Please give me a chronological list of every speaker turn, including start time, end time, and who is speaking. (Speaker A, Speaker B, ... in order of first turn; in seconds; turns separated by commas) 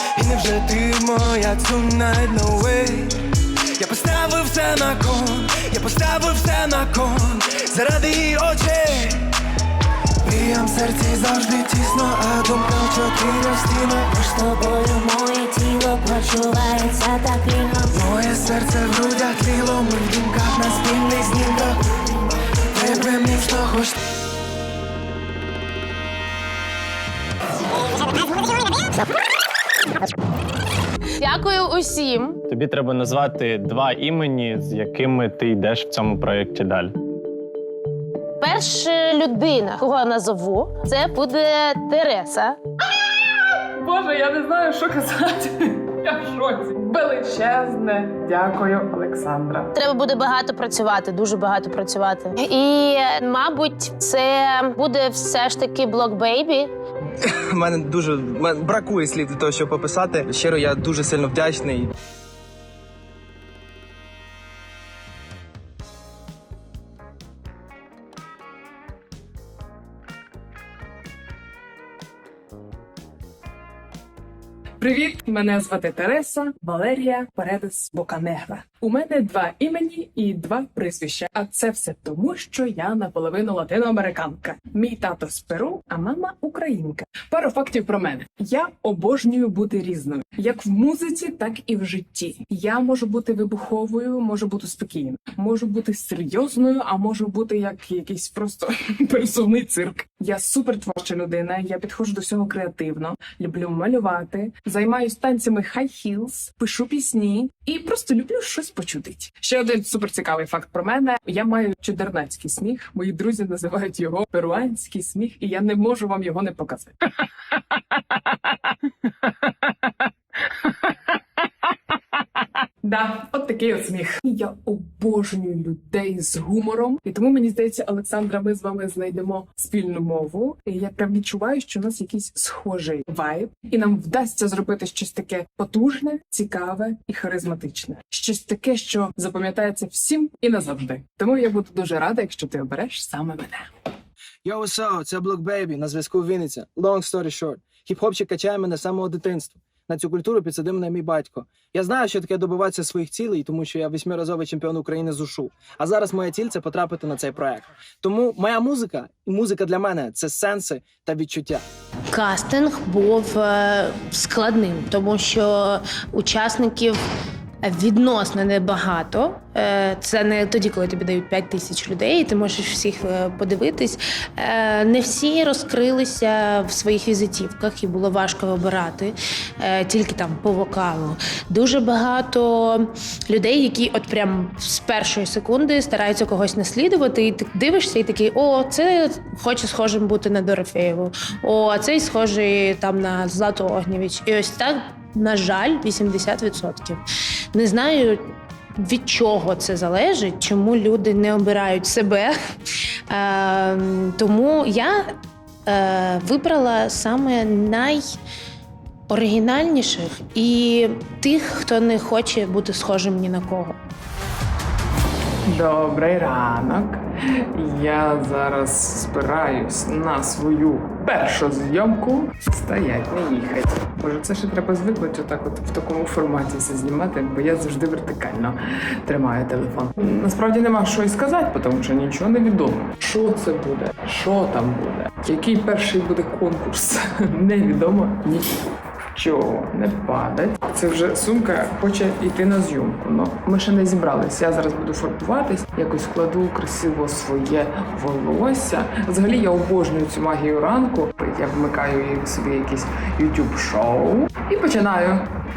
Speaker A: 0.1-3.1, Speaker A: 3.8-9.2, Speaker A: 10.2-14.1, Speaker B: 14.3-17.9, Speaker A: 17.9-21.8, Speaker A: 22.7-24.0, Speaker C: 31.2-32.4, Speaker D: 32.5-36.9, Speaker C: 38.4-42.6, Speaker E: 43.7-49.7, Speaker C: 49.7-56.7, Speaker F: 57.2-61.9, Speaker E: 74.8-116.9, Speaker E: 122.8-143.7, Speaker F: 144.4-161.6, Speaker C: 162.1-167.0, Speaker C: 167.6-197.0, Speaker C: 197.5-202.4, Speaker C: 203.1-205.1, Speaker C: 205.7-208.2, Speaker C: 209.1-213.8, Speaker E: 215.4-238.5, Speaker E: 239.1-255.2